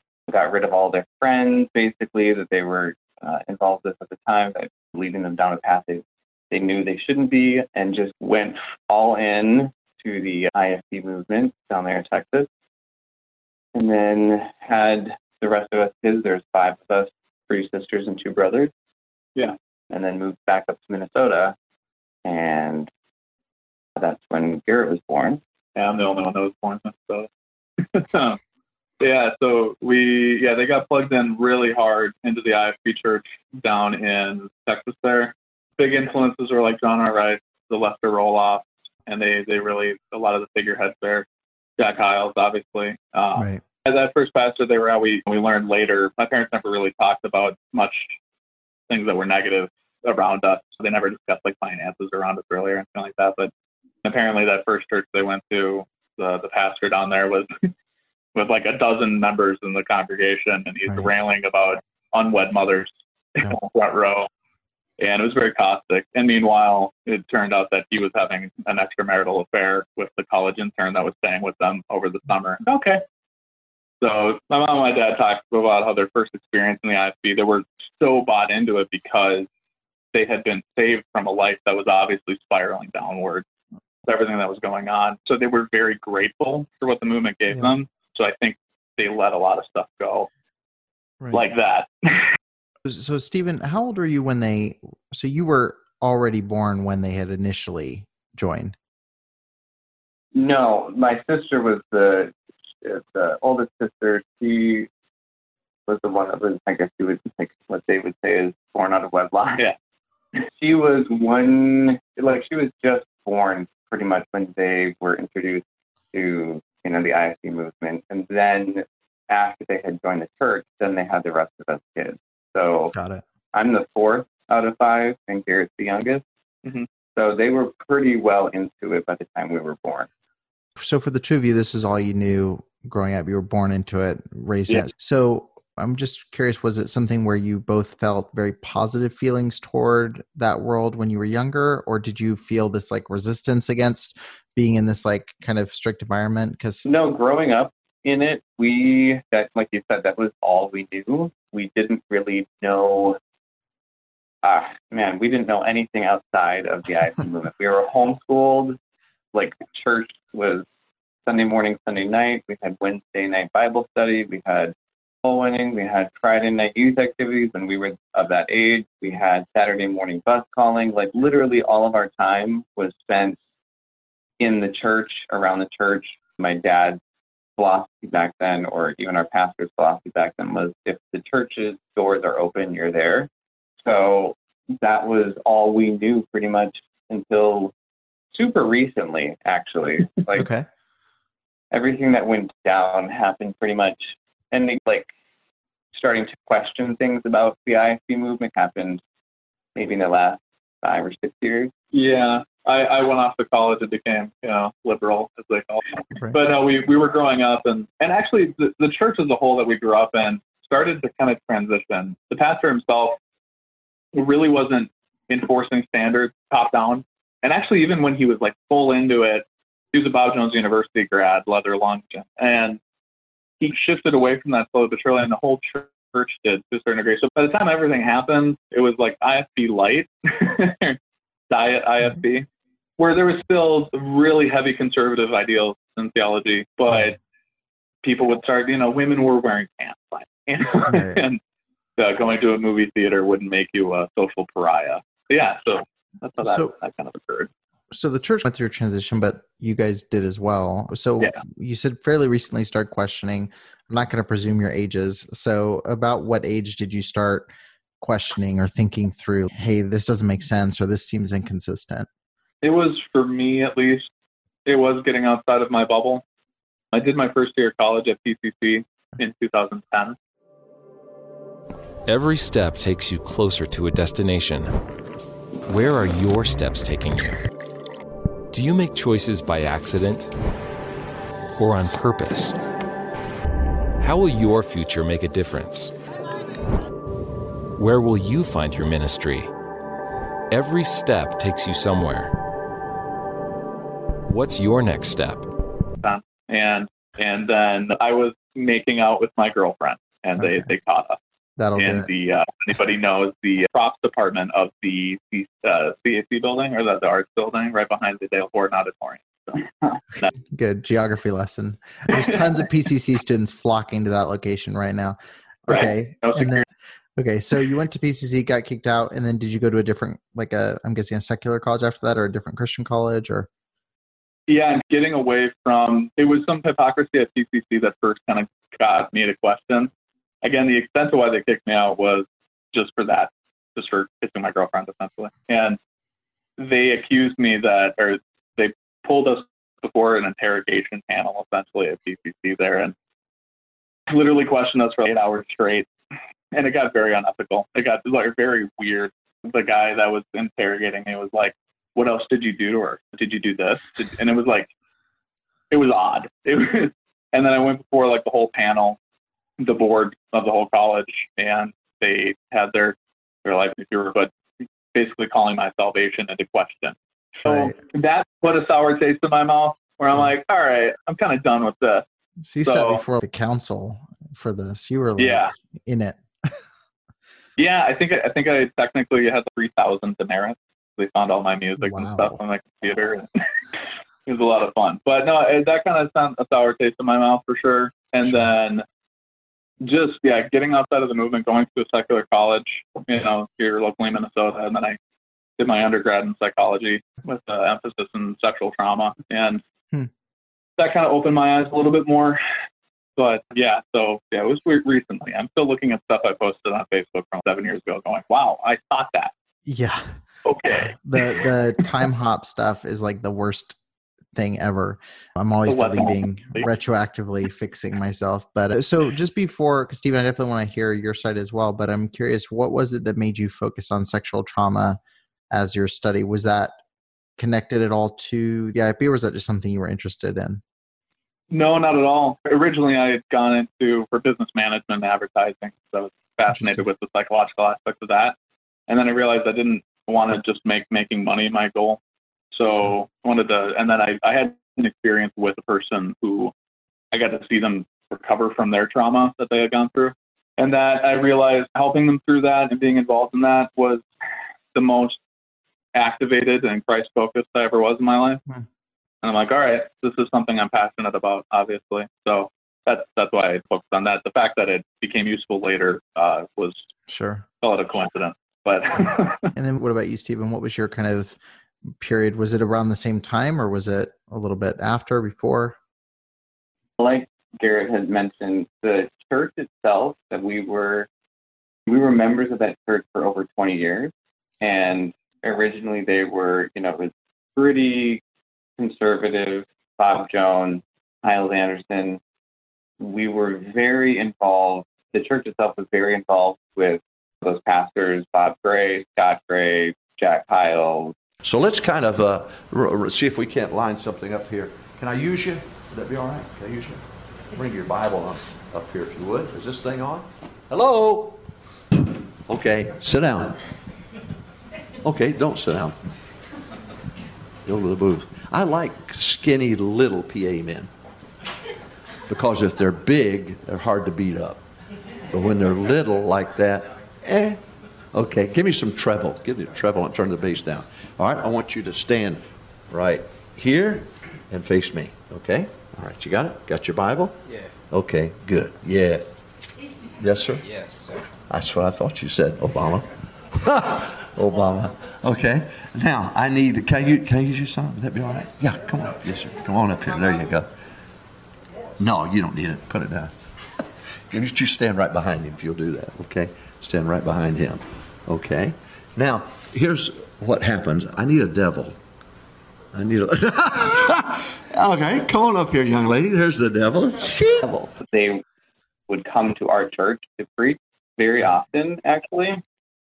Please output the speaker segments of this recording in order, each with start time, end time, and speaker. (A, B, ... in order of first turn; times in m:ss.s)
0:00.3-0:12.5 A
0:13.7-0:18.7 A
0:19.9-0:21.6 A
0:22.2-0:22.9 A
0:24.0-0:25.4 A
0:25.8-0:27.3 B
0:27.8-0:28.4 B
0:29.0-0:41.2 B
0:41.8-0:48.1 B
0:43.4-0:43.6 C
0:48.9-0:53.5 B
0:54.0-0:57.7 B
0:58.3-1:04.3 B
1:05.0-1:13.0 B
1:14.0-1:19.5 B
1:20.1-1:23.4 B
1:24.0-1:30.3 B
1:31.3-1:32.3 B
1:32.8-1:38.8 C
1:40.3-1:44.9 A
1:45.9-1:49.6 A
1:50.6-2:02.9 A
2:02.9-2:03.2 C
2:03.5-2:06.2 A
2:07.1-2:10.1 A
2:10.8-2:26.8 C
2:26.8-2:33.2 A
2:34.4-2:38.8 A
2:39.3-2:40.6 A
2:41.2-2:53.4 A
2:54.4-2:57.0 A
2:57.6-3:03.3 A
3:03.8-3:07.7 A
3:08.3-3:10.5 A
3:10.3-3:10.6 C
3:11.7-3:15.1 A
3:15.9-3:19.0 A
3:19.8-3:21.7 A
3:21.9-3:33.2 B
3:34.1-3:42.8 B
3:43.6-3:51.0 B
3:51.5-3:52.4 B
3:53.0-3:57.2 B
3:58.0-4:01.4 B
4:00.9-4:01.2 C
4:02.0-4:07.5 B
4:06.4-4:06.7 C
4:07.9-4:17.5 C
4:18.0-4:22.1 C
4:22.6-4:24.1 B
4:24.6-4:26.2 B
4:26.9-4:30.2 B
4:32.0-4:34.8 D
4:35.6-4:37.4 D
4:38.5-4:40.3 D
4:41.6-4:42.6 D
4:44.0-4:45.9 D
4:47.8-4:49.5 D
4:50.5-4:52.3 D
4:54.2-4:55.5 D
4:56.0-5:01.2 B
5:00.4-5:00.7 C
5:01.6-5:02.1 C
5:01.8-5:10.3 B
5:10.5-5:16.6 C
5:12.1-5:12.4 B
5:15.7-5:16.6 B
5:17.2-5:23.5 C
5:24.5-5:29.9 B
5:30.4-5:35.8 B
5:36.6-5:42.9 B
5:44.1-5:45.9 B
5:46.5-5:54.7 B
5:55.7-5:59.0 B
5:59.6-6:04.3 B
6:04.9-6:12.0 B
6:07.4-6:07.7 C
6:12.4-6:16.5 C
6:12.6-6:13.0 B
6:15.2-6:15.5 B
6:17.6-6:23.3 B
6:21.8-6:22.4 C
6:24.3-6:28.8 B
6:29.8-6:35.0 B
6:35.6-6:39.6 B
6:40.8-6:42.4 B
6:43.2-6:49.3 B
6:49.6-6:50.2 C
6:50.4-6:51.5 B
6:50.7-6:53.8 C
6:54.3-7:05.0 C
6:55.7-6:56.7 B
7:05.5-7:06.8 C
7:07.4-7:10.6 C
7:11.5-7:18.3 B
7:16.5-7:16.8 C
7:18.9-7:22.0 B
7:22.5-7:26.5 B
7:27.1-7:34.0 B
7:34.7-7:35.2 B
7:35.9-7:38.4 B
7:39.2-7:46.9 B
7:47.1-7:47.4 C
7:47.6-7:49.5 B
7:49.5-7:55.8 C
7:57.0-8:01.1 A
8:01.9-8:08.2 A
8:08.8-8:12.2 A
8:13.0-8:21.1 A
8:21.4-8:27.0 E
8:27.5-8:31.4 E
8:32.5-8:33.6 E
8:35.0-8:36.0 E
8:37.6-8:40.9 E
8:42.3-8:44.6 E
8:45.3-8:47.6 E
8:48.1-8:57.4 E
8:57.9-8:59.2 E
9:00.2-9:10.7 E
9:12.0-9:13.3 E
9:14.3-9:22.0 E
9:22.9-9:27.9 E
9:27.9-9:28.4 A
9:29.1-9:32.6 A